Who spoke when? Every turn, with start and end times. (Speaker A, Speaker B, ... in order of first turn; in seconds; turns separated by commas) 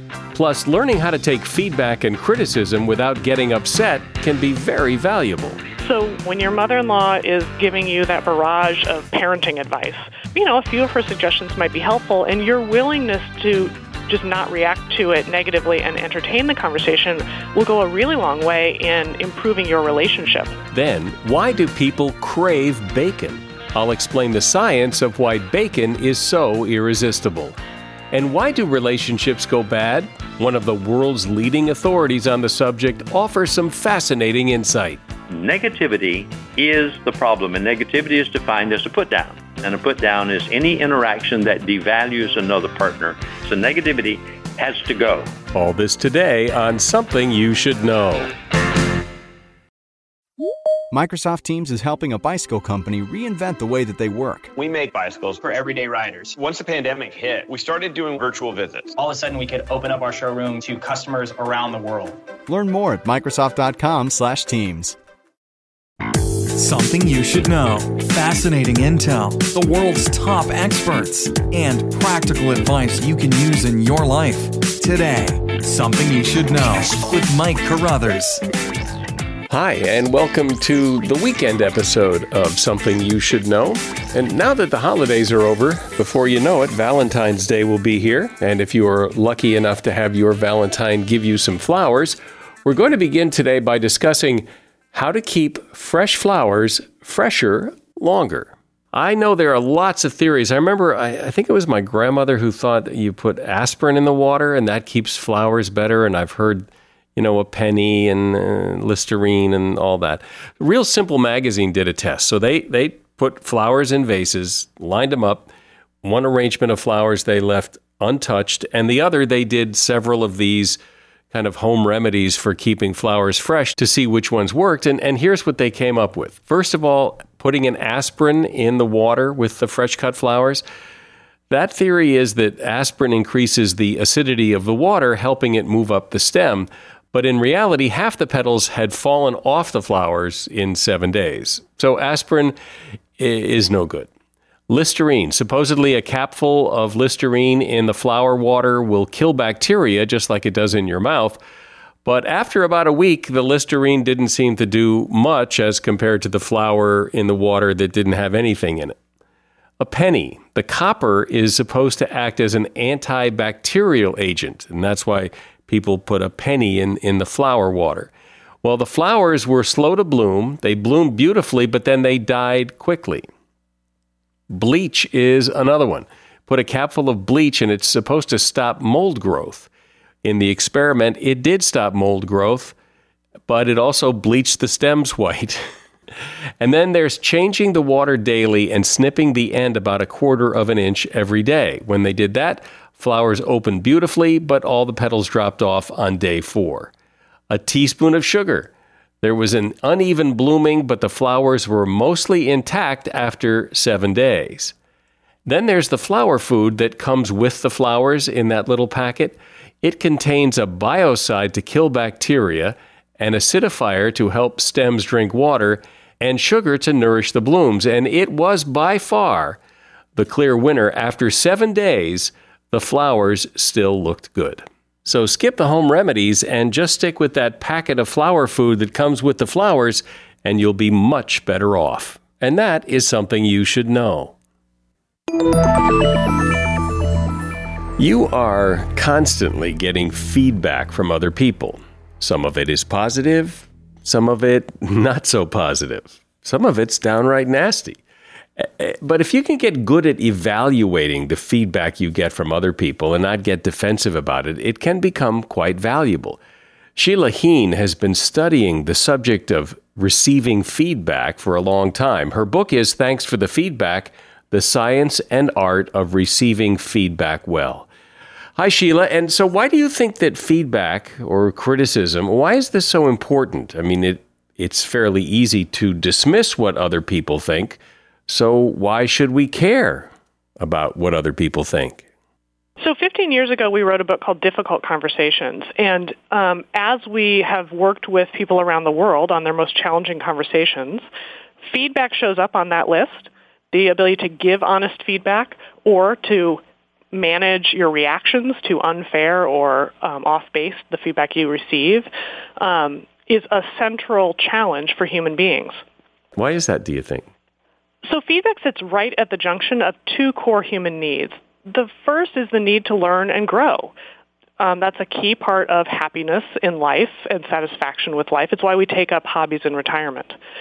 Speaker A: 0.3-5.6, Speaker B: 5.8-20.5, Speaker A: 20.7-27.6, Speaker A: 28.1-35.0, Speaker C: 35.3-45.3, Speaker A: 45.5-48.3, Speaker D: 50.9-54.5, Speaker E: 54.5-55.5, Speaker F: 55.4-56.3, Speaker E: 56.3-58.9, Speaker F: 58.9-62.2, Speaker D: 62.5-65.0, Speaker G: 66.5-78.4, Speaker A: 79.5-115.5, Speaker A: 116.0-120.8, Speaker A: 121.3-130.6, Speaker A: 131.5-142.6, Speaker A: 143.2-144.1, Speaker A: 144.7-151.4, Speaker A: 152.0-159.0, Speaker A: 159.8-168.1, Speaker A: 168.6-173.3, Speaker A: 174.5-179.7, Speaker A: 180.2-182.7, Speaker A: 183.5-185.7, Speaker A: 186.6-196.9, Speaker A: 197.5-204.7, Speaker A: 205.4-219.6, Speaker A: 220.2-234.3, Speaker A: 238.0-248.0, Speaker A: 248.6-256.4, Speaker A: 256.9-267.9, Speaker A: 268.6-282.0, Speaker B: 282.8-291.0, Speaker B: 291.6-305.8, Speaker A: 306.4-307.3, Speaker B: 308.0-313.9, Speaker B: 314.6-320.4